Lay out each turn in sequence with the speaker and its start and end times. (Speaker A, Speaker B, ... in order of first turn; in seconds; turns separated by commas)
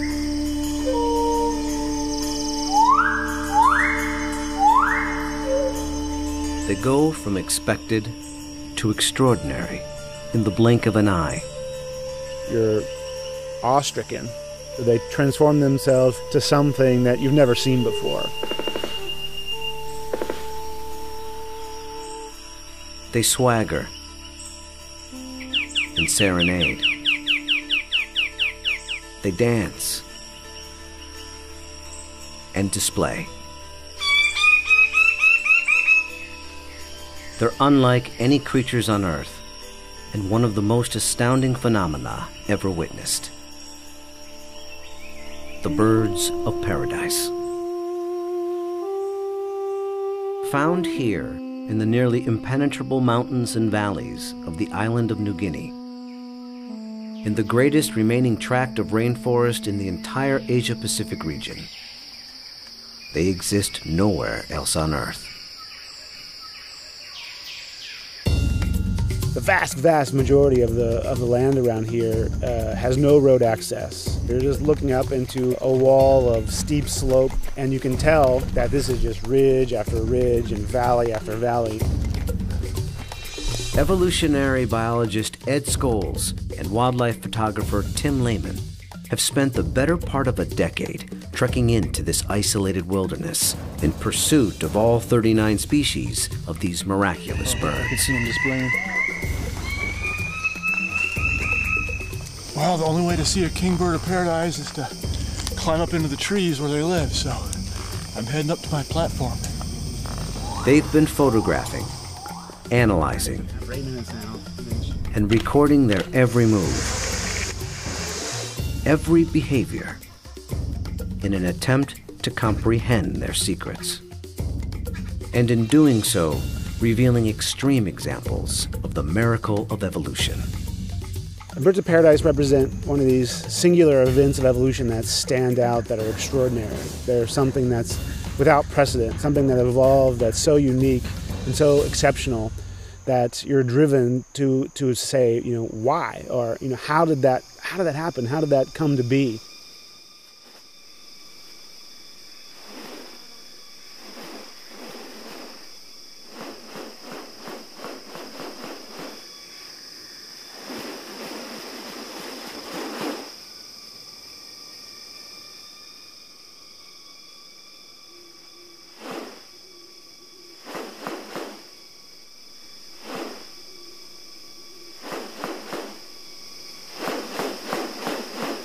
Speaker A: 6.6-8.2, Speaker A: 8.8-11.5, Speaker B: 12.5-12.9, Speaker B: 13.6-18.3, Speaker A: 23.1-23.9, Speaker A: 25.9-26.9, Speaker A: 29.2-30.1, Speaker A: 32.5-33.3, Speaker A: 37.4-39.4, Speaker A: 40.1-43.3, Speaker A: 45.6-47.3, Speaker A: 50.4-55.8, Speaker A: 57.2-61.7, Speaker A: 63.1-65.3, Speaker B: 69.3-81.8, Speaker A: 83.8-98.0, Speaker C: 97.5-98.8, Speaker C: 102.5-109.6, Speaker A: 110.6-111.9, Speaker A: 112.7-113.5, Speaker B: 113.1-115.0, Speaker A: 115.1-116.9, Speaker A: 118.8-120.0, Speaker A: 121.2-124.0, Speaker A: 125.3-130.5, Speaker B: 131.6-142.5, Speaker B: 143.0-149.4